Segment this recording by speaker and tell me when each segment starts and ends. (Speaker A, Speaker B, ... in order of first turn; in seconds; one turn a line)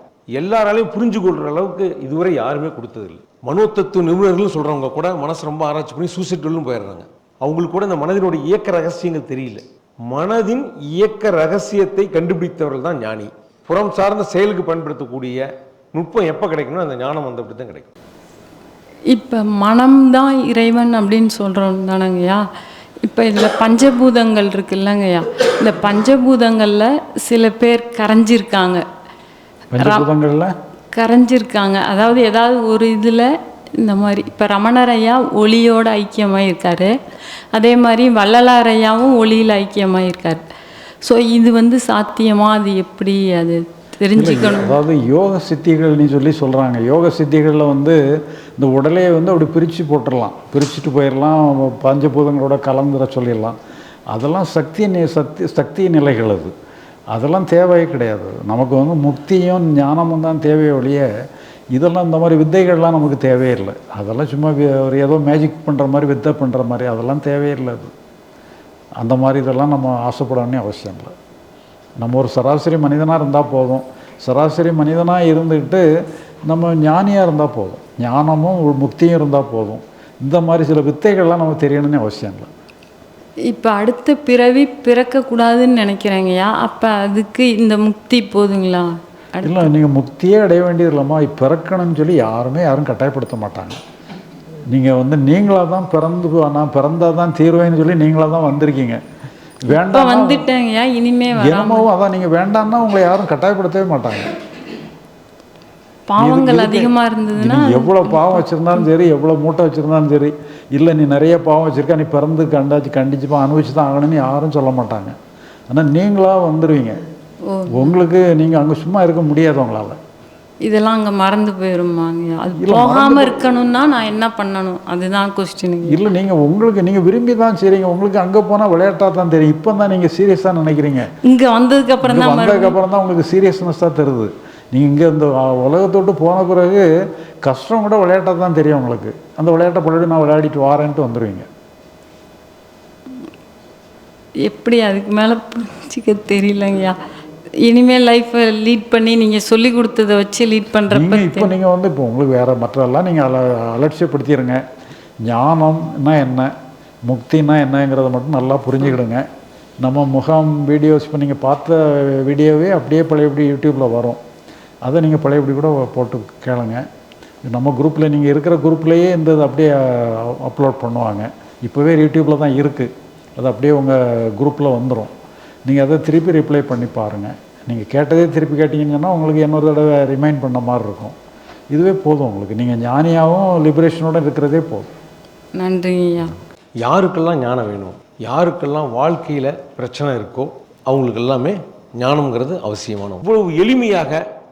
Speaker A: 0.3-17.9
Speaker B: 19.1-22.4
Speaker B: 23.0-28.8
Speaker C: 29.7-30.5
Speaker B: 29.8-30.1
Speaker B: 30.9-33.3
Speaker B: 33.8-36.9
Speaker B: 37.5-40.4
Speaker B: 41.0-44.8
Speaker C: 44.1-48.0
Speaker C: 48.6-53.6
Speaker C: 54.1-56.5
Speaker C: 57.1-61.1
Speaker C: 61.7-67.9
Speaker C: 69.0-71.1
Speaker C: 72.0-75.8
Speaker C: 76.5-82.5
Speaker B: 83.5-89.7
Speaker C: 89.4-93.8
Speaker C: 94.7-99.0
Speaker C: 99.7-100.5
Speaker B: 99.7-101.9
Speaker C: 101.3-104.3
Speaker B: 106.1-108.9
Speaker C: 106.2-115.2
Speaker C: 115.7-117.0
Speaker B: 117.5-117.9
Speaker C: 117.7-120.0
Speaker B: 120.6-126.0
Speaker C: 122.6-123.4
Speaker C: 125.9-131.1
Speaker B: 131.2-132.8
Speaker C: 132.0-136.9
Speaker C: 137.4-141.5
Speaker B: 144.5-147.0
Speaker B: 147.7-151.5
Speaker C: 150.9-154.6
Speaker C: 155.3-156.5
Speaker C: 157.1-159.2
Speaker C: 159.8-164.2
Speaker C: 164.8-166.8
Speaker C: 167.5-175.1
Speaker C: 175.7-181.2
Speaker C: 181.7-184.9
Speaker B: 185.6-186.4
Speaker A: 186.8-194.2